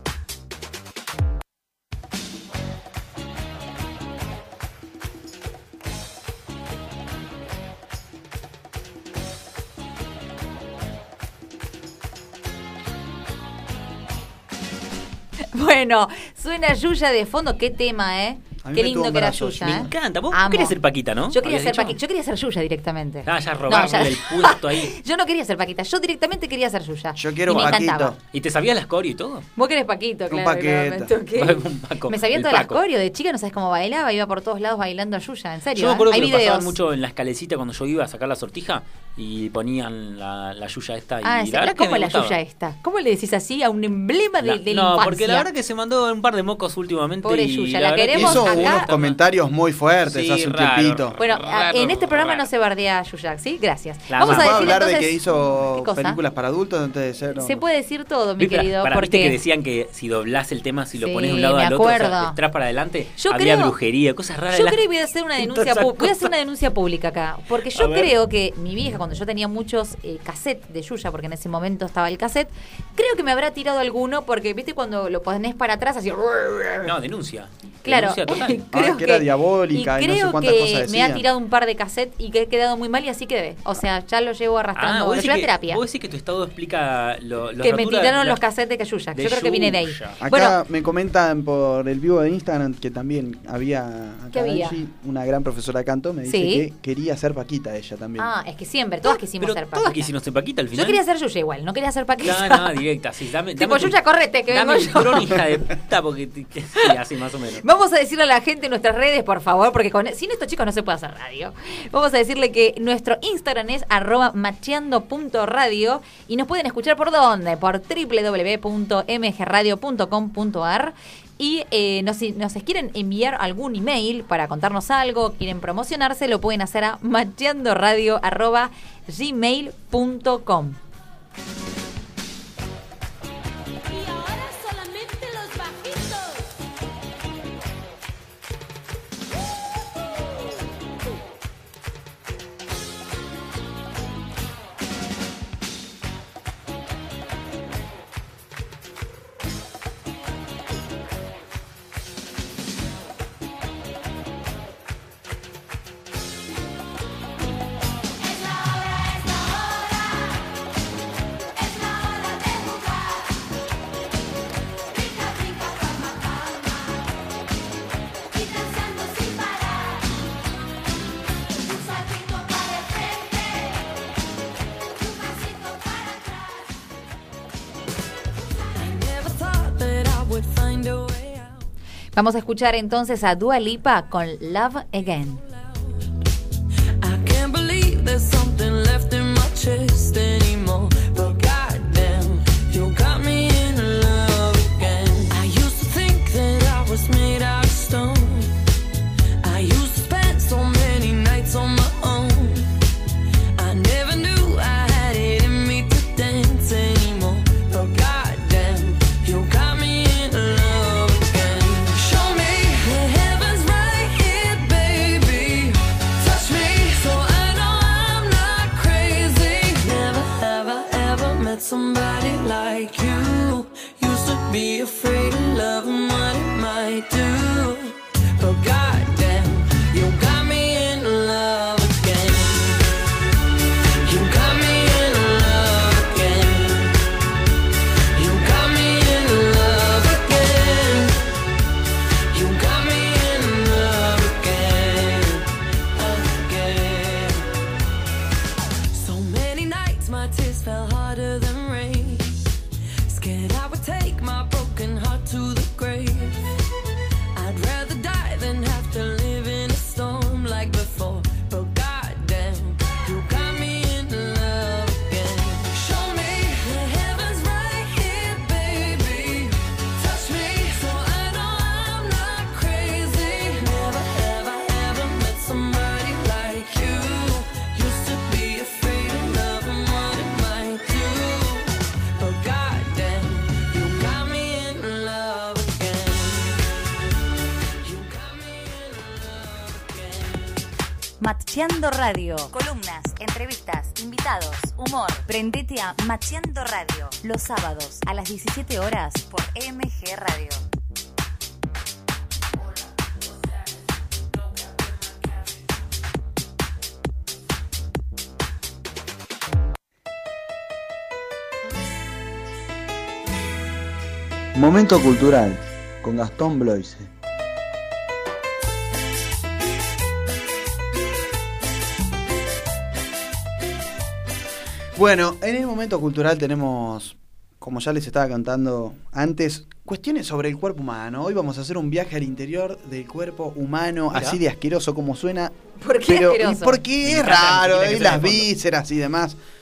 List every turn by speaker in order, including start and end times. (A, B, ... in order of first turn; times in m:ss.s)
0:15.5-0:20.7 A
0:18.6-0:19.9 B
0:19.6-0:22.0 C
0:21.3-0:28.2 A
0:23.2-0:24.9 C
0:27.2-0:28.2 B
0:28.3-0:29.5 C
0:29.6-0:36.7 A
0:30.3-0:31.1 B
0:31.3-0:32.8 C
0:35.7-0:42.4 C
0:41.2-0:45.5 A
0:44.4-0:49.2 C
0:47.2-0:48.9 A
0:48.1-0:51.2 B
0:50.1-0:52.5 C
0:51.2-0:56.2 A
0:54.1-0:54.8 C
0:54.2-0:57.6 B
0:57.4-0:59.4 A
0:58.4-1:04.8 C
1:01.0-1:02.4 A
1:03.2-1:03.7 A
1:04.5-1:16.9 A
1:05.4-1:06.3 C
1:07.7-1:08.1 C
1:16.8-1:18.6 C
1:17.8-1:25.8 A
1:18.7-1:21.2 B
1:24.8-1:28.4 C
1:27.6-1:30.6 A
1:29.1-1:30.2 C
1:30.2-1:38.3 B
1:34.3-1:34.8 A
1:36.2-1:36.6 A
1:38.2-1:40.1 A
1:39.0-1:41.0 C
1:40.7-1:42.7 A
1:42.2-1:47.6 C
1:43.6-1:45.4 A
1:47.6-2:10.8 A
2:14.0-2:16.3 D
2:38.4-2:39.8 D
2:41.7-2:43.2 D
2:45.0-2:46.7 D
2:48.4-2:49.8 D
2:51.7-2:53.6 D
2:55.1-2:56.4 D
2:58.7-3:01.6 E
3:02.1-3:05.4 A
3:07.0-3:18.5 E
3:19.4-3:22.7 E
3:23.6-3:52.9 E
3:54.0-3:57.0 E
3:58.1-4:01.2 E
4:02.3-4:07.5 E
4:08.9-4:12.5 E
4:13.0-4:16.5 E
4:17.3-4:46.7 E
4:47.8-4:50.5 E
4:51.2-5:00.6 F
5:14.5-5:17.1 B
5:25.0-5:39.4 B
5:34.1-5:34.4 C
5:35.8-5:36.8 A
5:37.0-5:38.5 C